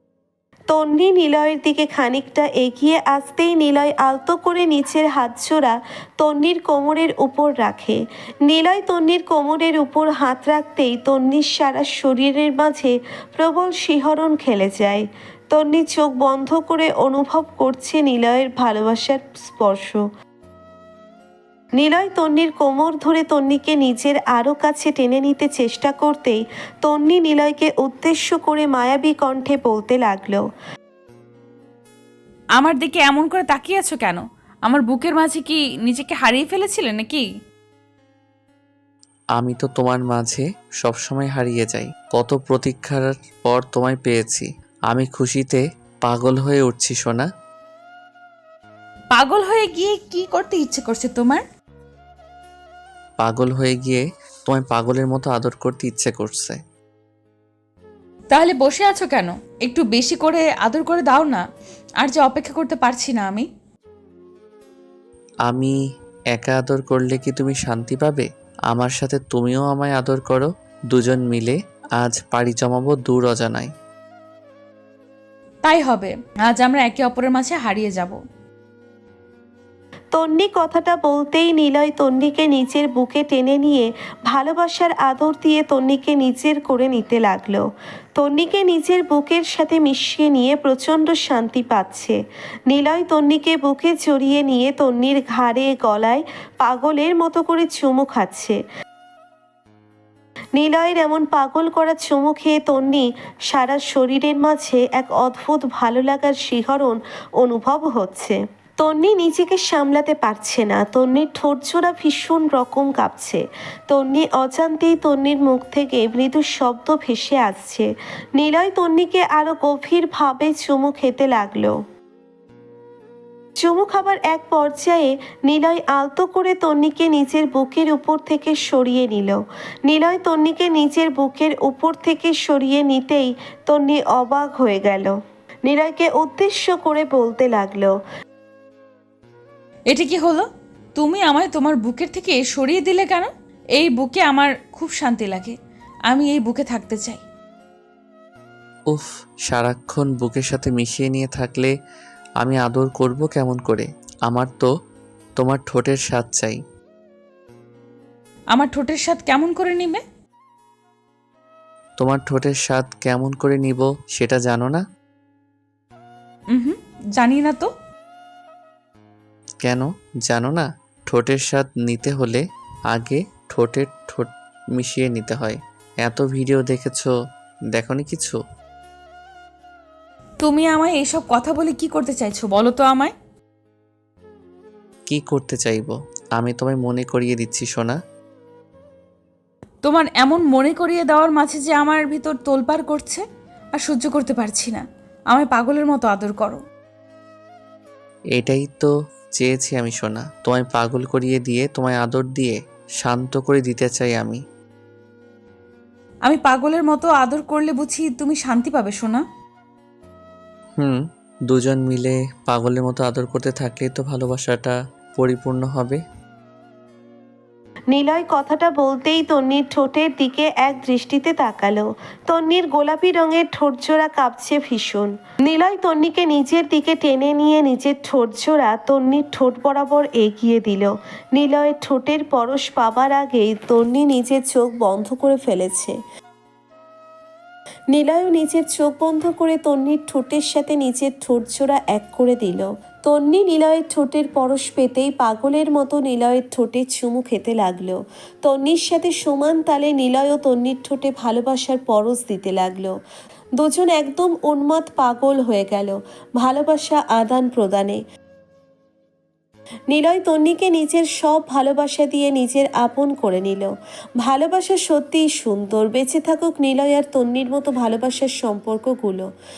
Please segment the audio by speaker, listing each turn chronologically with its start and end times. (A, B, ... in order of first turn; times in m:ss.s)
0:00.7-0:20.0 A
0:21.8-0:30.4 A
0:32.6-0:37.2 B
0:39.4-0:47.3 C
0:49.1-0:51.4 B
0:53.2-0:56.6 C
0:58.3-1:01.4 B
1:02.0-1:03.5 B
1:05.4-1:05.7 C
1:06.3-1:13.7 C
1:15.6-1:18.2 B
1:20.1-1:27.6 A
1:28.2-1:32.1 A
1:32.7-1:38.6 A
1:40.6-1:57.8 A
1:58.4-2:01.7 A
2:03.6-2:15.1 A
2:15.7-2:17.9 A
2:19.9-2:25.5 B
2:26.1-2:27.2 B
2:28.9-2:31.7 C
2:32.4-2:34.7 C
2:35.4-2:36.6 C
2:38.5-2:40.0 B
2:42.0-2:44.8 C
2:46.5-2:47.7 B
2:49.6-2:57.1 C
2:57.7-2:58.4 C
3:00.4-3:03.1 B
3:05.1-3:08.0 C
3:09.8-3:13.2 B
3:13.8-3:16.6 B
3:18.3-3:24.4 C
3:26.2-3:29.2 B
3:30.8-3:36.0 C
3:37.9-3:55.9 A
3:57.9-4:12.9 A
4:13.6-4:18.0 A
4:19.9-4:23.7 A
4:24.2-4:29.2 A